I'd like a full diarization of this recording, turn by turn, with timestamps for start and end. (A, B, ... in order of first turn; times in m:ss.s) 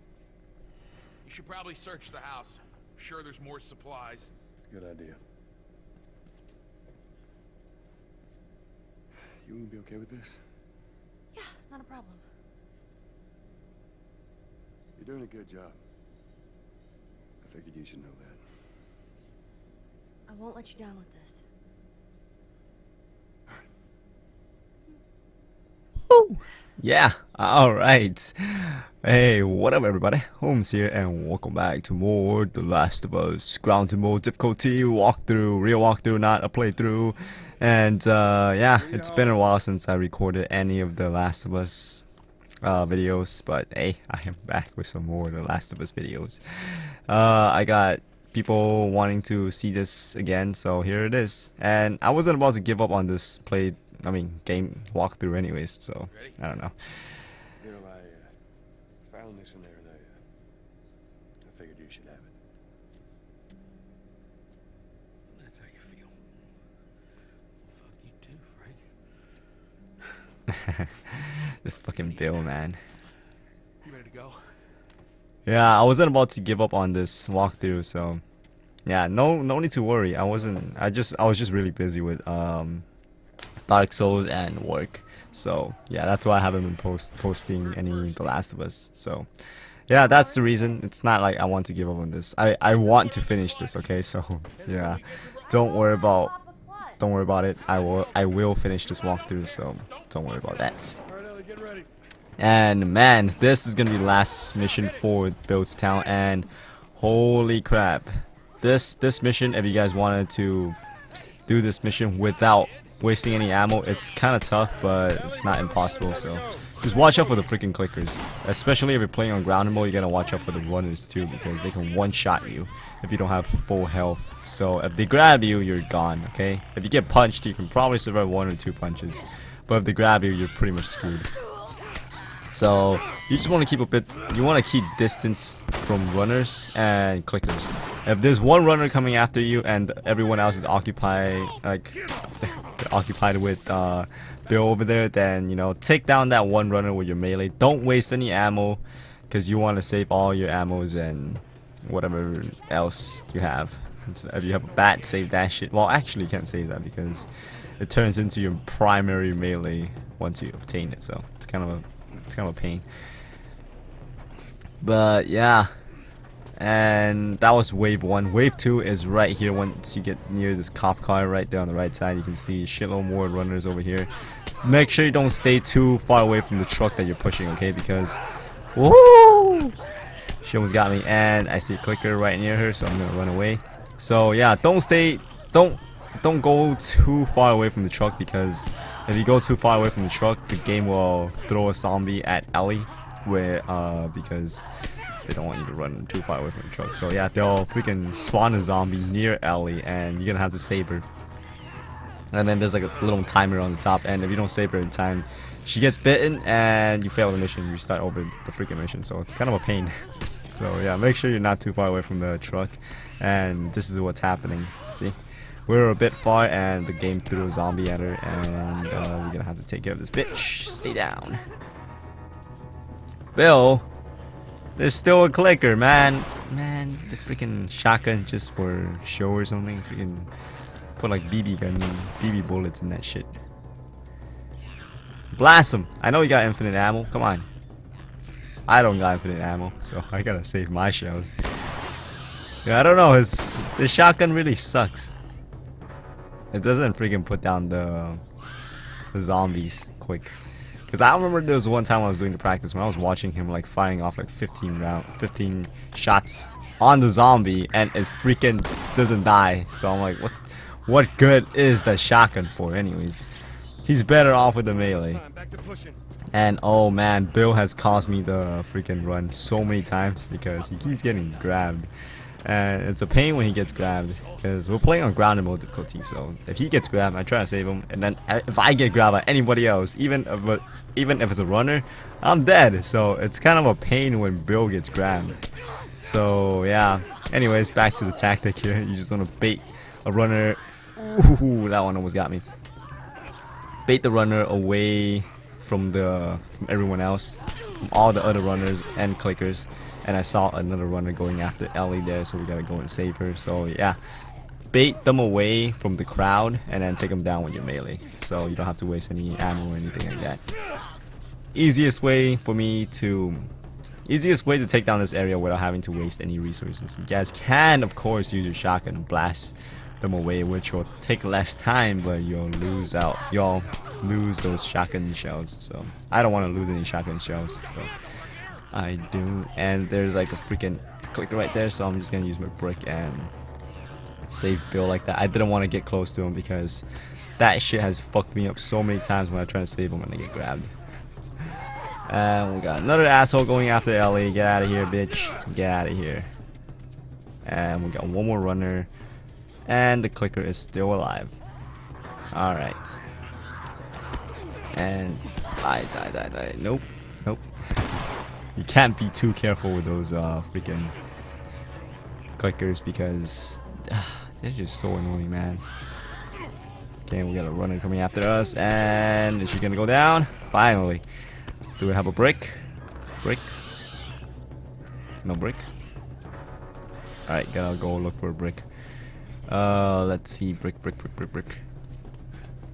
0:01.2-0:04.3 A
0:04.6-0:05.2 B
0:09.4-0:10.4 B
0:11.3-0:12.2 C
0:15.0-0:15.8 B
0:17.4-0:18.4 B
0:20.3-0:21.4 C
0:26.1-0:42.0 D
0:42.6-0:56.7 D
0:56.1-0:56.4 A
0:57.6-0:58.3 B
0:59.0-1:00.1 B
1:01.4-1:02.3 B
1:05.3-1:06.1 A
1:07.6-1:08.8 A
1:10.5-1:12.8 D
1:13.8-1:14.4 A
1:15.4-1:18.2 D
1:18.8-1:22.8 D
1:23.7-1:29.3 D
1:29.9-1:36.4 D
1:37.0-1:41.0 D
1:42.4-1:50.8 D
1:51.5-2:11.3 D
2:12.5-2:42.8 D
2:44.8-2:45.7 D
2:46.6-2:54.1 D
2:54.6-2:58.2 D
2:58.7-2:59.8 D
3:00.4-3:14.6 D
3:15.2-3:21.0 D
3:22.3-3:35.2 D
3:35.7-3:41.4 D
3:43.3-3:43.9 D
3:44.8-3:50.3 D
3:51.0-3:53.4 D
3:55.3-3:57.4 D
3:58.7-4:01.3 D
4:02.6-4:05.1 D
4:06.5-4:08.2 D
4:09.1-4:10.3 D
4:10.9-4:23.3 D
4:23.8-4:25.2 D
4:25.2-4:26.0 B
4:26.3-4:31.9 D
4:32.4-4:45.4 D
4:46.0-4:52.4 D
4:53.8-5:04.0 D
5:04.7-5:10.4 D
5:11.5-5:13.5 D
5:14.0-5:27.9 D
5:28.7-5:33.3 D
5:34.3-5:36.8 D
5:37.4-5:40.7 D
5:42.1-5:46.3 D
5:47.4-5:48.9 D
5:49.6-5:51.3 D
5:52.3-5:53.0 D
5:54.7-5:58.0 D
5:58.6-6:00.9 D
6:02.4-6:05.6 D
6:07.1-6:11.0 D
6:11.8-6:12.6 D
6:13.2-6:13.6 D
6:15.2-6:15.6 D
6:17.3-6:18.6 D
6:19.5-6:21.6 D